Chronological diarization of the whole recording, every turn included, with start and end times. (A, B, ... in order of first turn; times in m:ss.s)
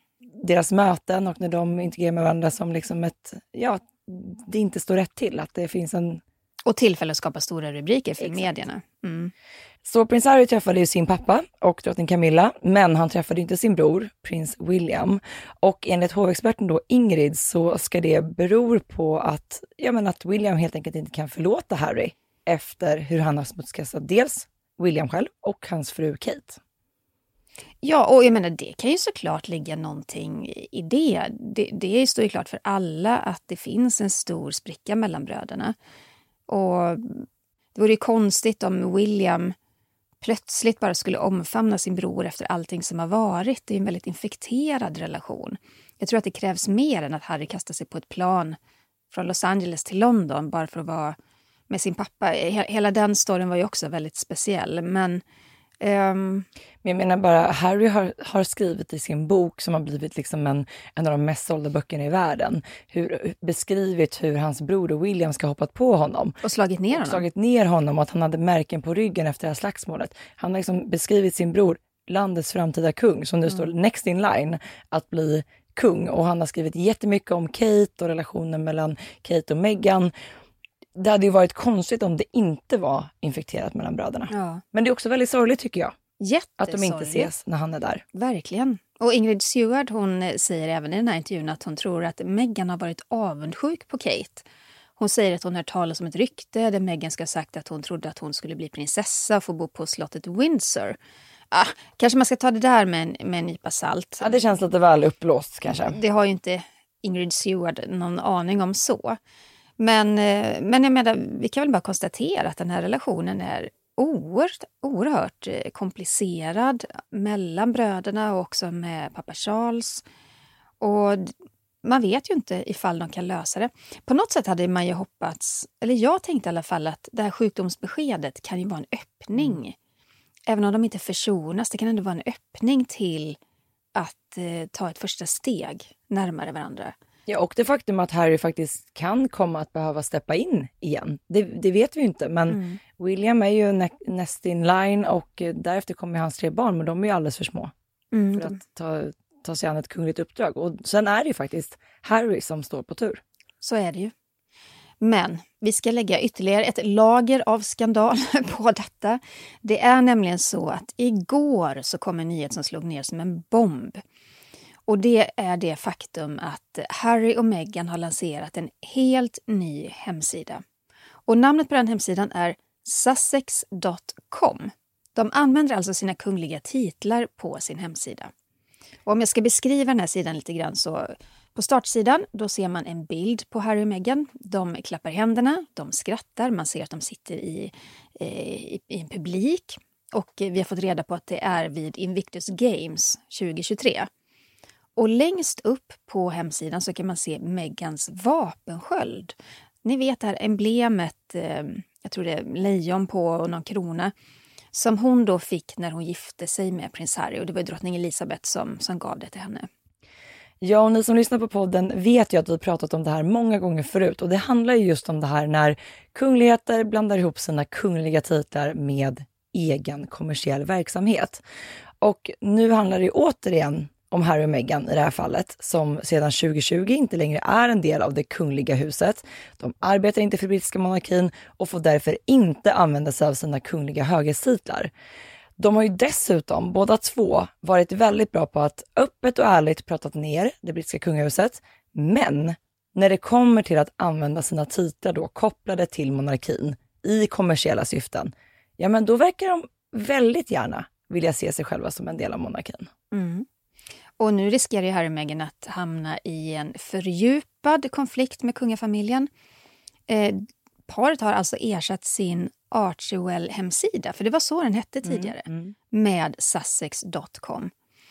0:00.3-0:06.2 A
0:06.6-0:09.3 B
0:08.2-0:08.5 A
0:09.8-0:26.6 A
0:27.8-0:35.7 B
0:36.5-0:39.5 B
0:40.2-0:48.6 B
0:49.1-0:51.2 B
0:51.7-0:55.2 B
0:55.8-0:56.5 B
0:56.8-1:06.4 A
1:06.4-1:07.2 B
1:06.9-1:20.1 A
1:21.0-1:26.0 A
1:24.3-1:24.6 B
1:26.2-1:27.3 B
1:26.6-1:28.0 A
1:28.1-1:34.4 B
1:35.0-1:41.0 B
1:41.5-1:44.4 B
1:44.2-1:46.0 A
1:45.7-1:49.2 B
1:49.8-2:00.0 B
2:00.8-2:01.3 B
2:01.8-2:09.8 B
2:10.5-2:13.4 B
2:13.9-2:16.9 B
2:17.3-2:27.7 A
2:22.5-2:22.8 B
2:28.1-2:28.6 B
2:28.3-2:33.2 A
2:33.6-2:34.1 B
2:35.0-2:44.0 B
2:44.9-2:50.6 B
2:51.3-2:58.3 B
2:59.0-3:14.1 B
3:15.0-3:24.1 B
3:24.7-3:29.7 B
3:30.6-3:41.4 A
3:42.0-3:54.9 A
3:55.6-4:12.9 A
4:13.1-4:13.4 B
4:14.2-4:19.3 B
4:20.1-4:27.7 B
4:25.0-4:25.7 A